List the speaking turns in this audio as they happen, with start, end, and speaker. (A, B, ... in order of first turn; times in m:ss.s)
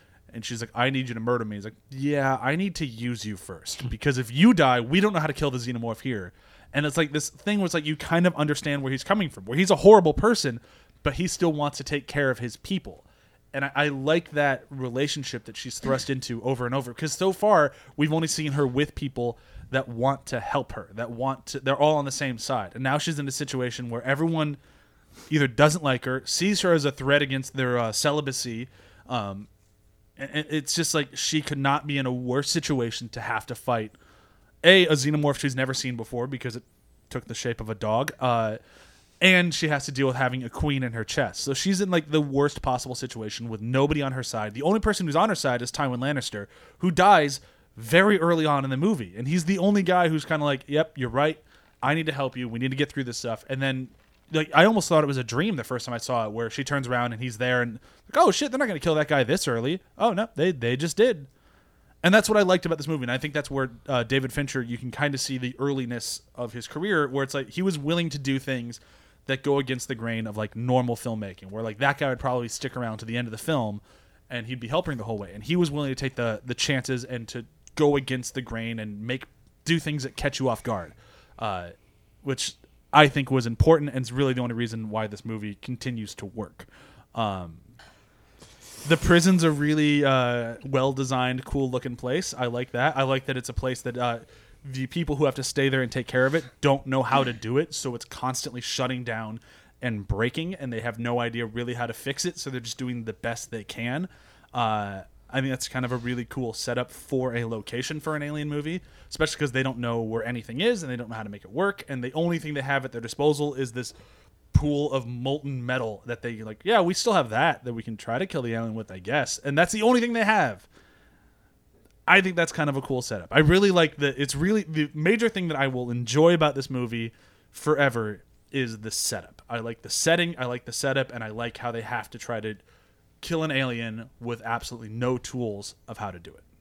0:00.3-0:24.6 A
0:25.3-0:29.5 A
0:30.2-0:33.9 A
0:34.6-0:38.6 A
0:39.2-1:01.3 A
1:02.0-1:21.7 A
1:22.2-1:27.6 A
1:28.8-1:53.9 A
1:54.5-2:00.6 A
2:02.1-2:12.6 A
2:13.2-2:16.4 A